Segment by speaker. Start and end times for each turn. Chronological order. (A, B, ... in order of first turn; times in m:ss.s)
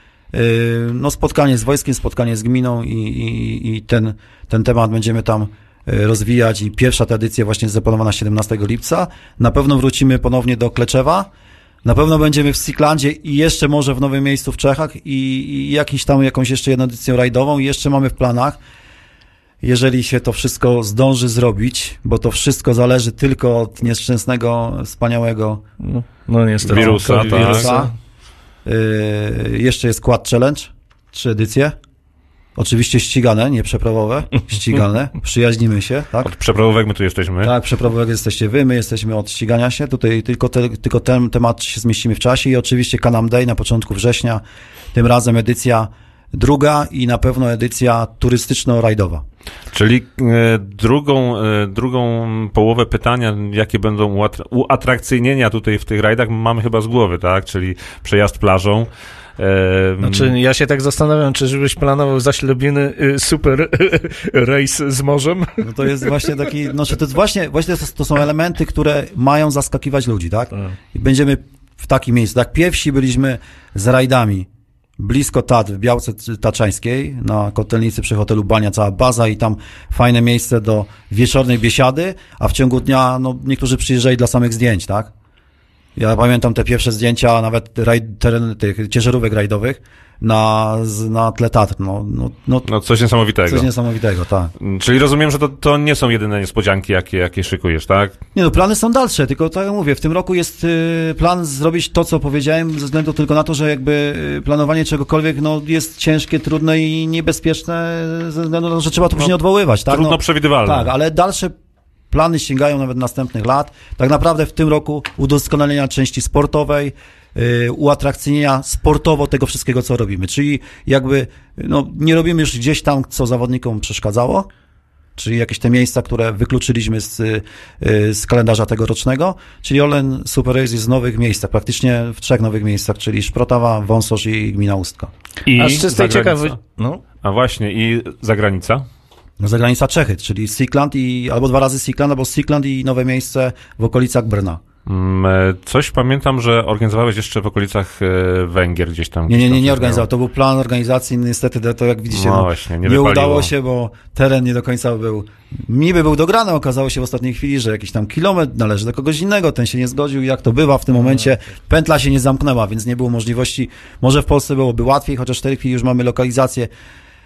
0:00.3-0:11.3 A
0:11.8-0:18.6 A
0:19.6-0:25.6 A
0:25.8-0:27.9 B
0:26.7-0:27.7 C
0:26.7-0:27.9 A
0:28.6-0:31.8 A
0:32.6-0:36.3 A
0:36.2-0:37.5 C
0:37.4-0:44.4 A
0:44.9-0:49.2 A
0:49.7-1:00.3 C
1:00.0-1:06.3 B
1:05.6-1:25.1 A
1:26.0-1:32.7 A
1:32.7-1:33.7 C
1:33.5-1:34.5 A
1:34.6-1:38.2 C
1:38.4-1:51.5 A
1:49.9-1:50.9 C
1:52.1-2:04.5 A
2:05.2-2:15.1 A
2:15.5-2:16.6 C
2:15.6-2:17.0 B
2:17.2-2:18.8 C
2:19.4-2:24.6 A
2:24.9-2:30.1 C
2:29.3-2:46.7 A
2:32.1-2:33.5 C